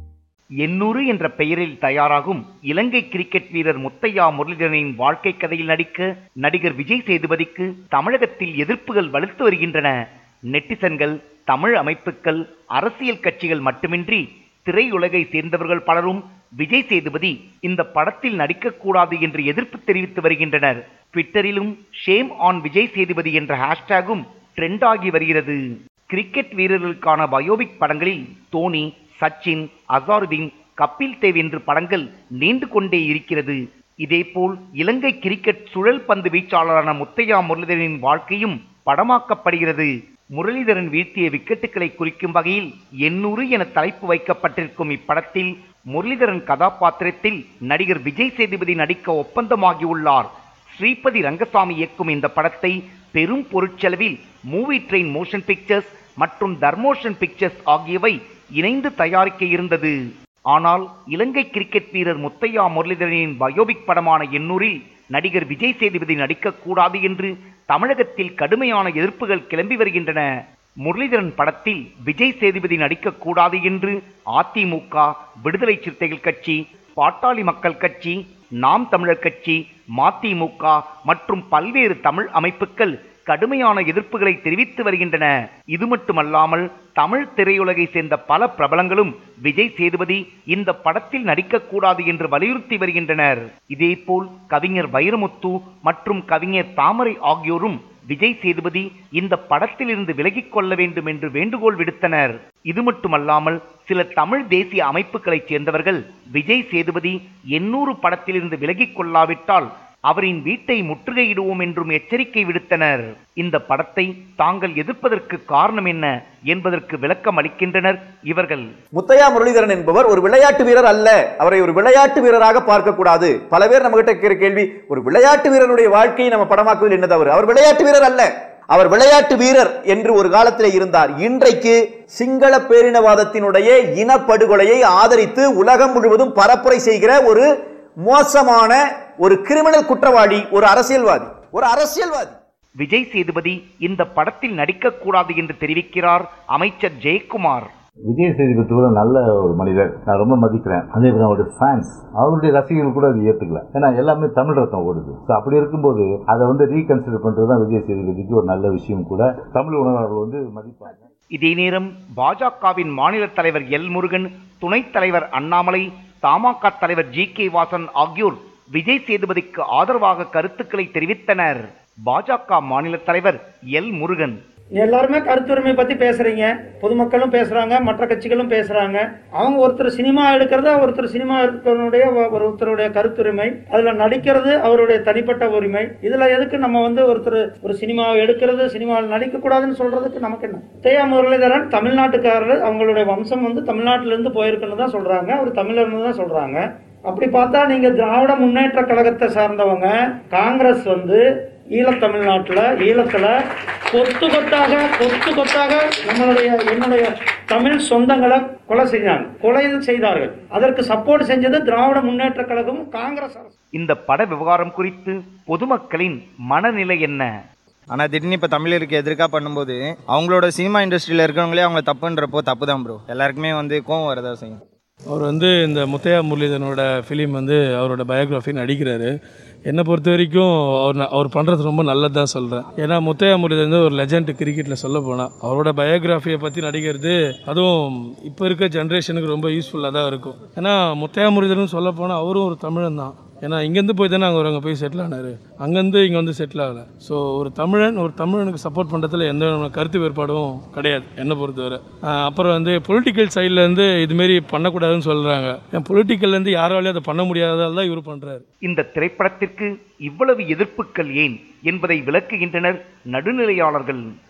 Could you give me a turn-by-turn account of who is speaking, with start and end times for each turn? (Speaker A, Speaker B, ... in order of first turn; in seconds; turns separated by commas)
Speaker A: 0.6-9.9, Speaker A: 10.5-25.6, Speaker A: 26.1-60.0, Speaker A: 60.5-70.3, Speaker A: 70.9-118.7, Speaker B: 119.0-137.5, Speaker B: 138.1-142.4, Speaker A: 142.8-147.7, Speaker C: 148.1-161.1, Speaker A: 161.4-174.4, Speaker D: 174.8-201.2, Speaker D: 201.8-203.3, Speaker D: 203.9-213.5, Speaker A: 213.8-217.3, Speaker E: 217.9-224.6, Speaker F: 225.1-258.4, Speaker A: 258.7-264.0